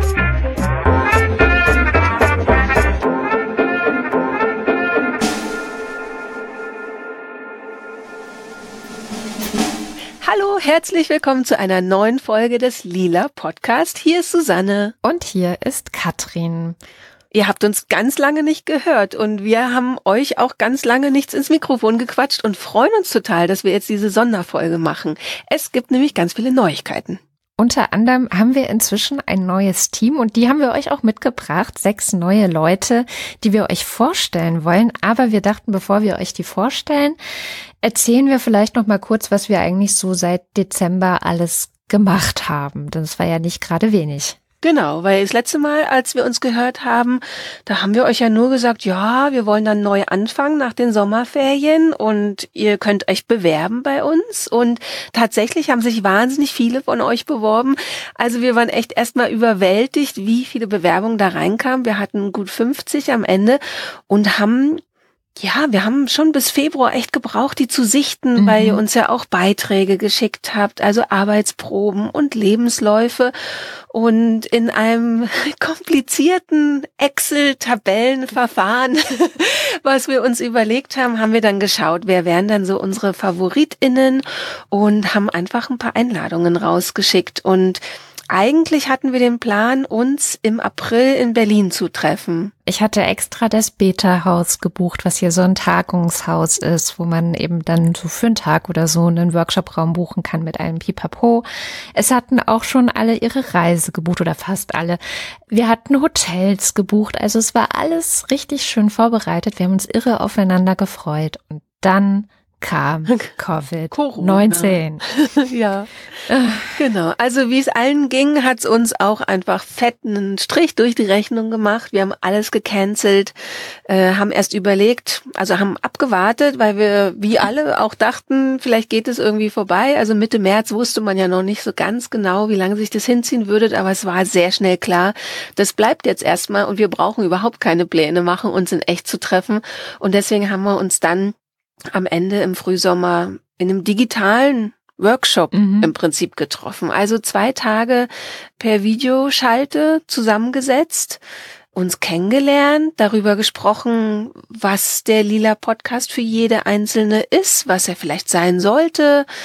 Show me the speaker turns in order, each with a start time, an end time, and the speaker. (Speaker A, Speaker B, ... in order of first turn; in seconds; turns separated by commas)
Speaker A: 10.2-14.9, Speaker B: 15.0-16.8, Speaker A: 17.3-27.2, Speaker B: 27.6-37.2, Speaker B: 37.8-44.4, Speaker A: 44.6-64.8, Speaker A: 65.4-92.5, Speaker B: 68.4-68.8, Speaker B: 92.7-115.0, Speaker A: 113.9-123.3, Speaker B: 116.3-116.7, Speaker A: 123.8-141.3, Speaker A: 141.9-151.2, Speaker B: 145.5-145.9, Speaker A: 151.7-159.3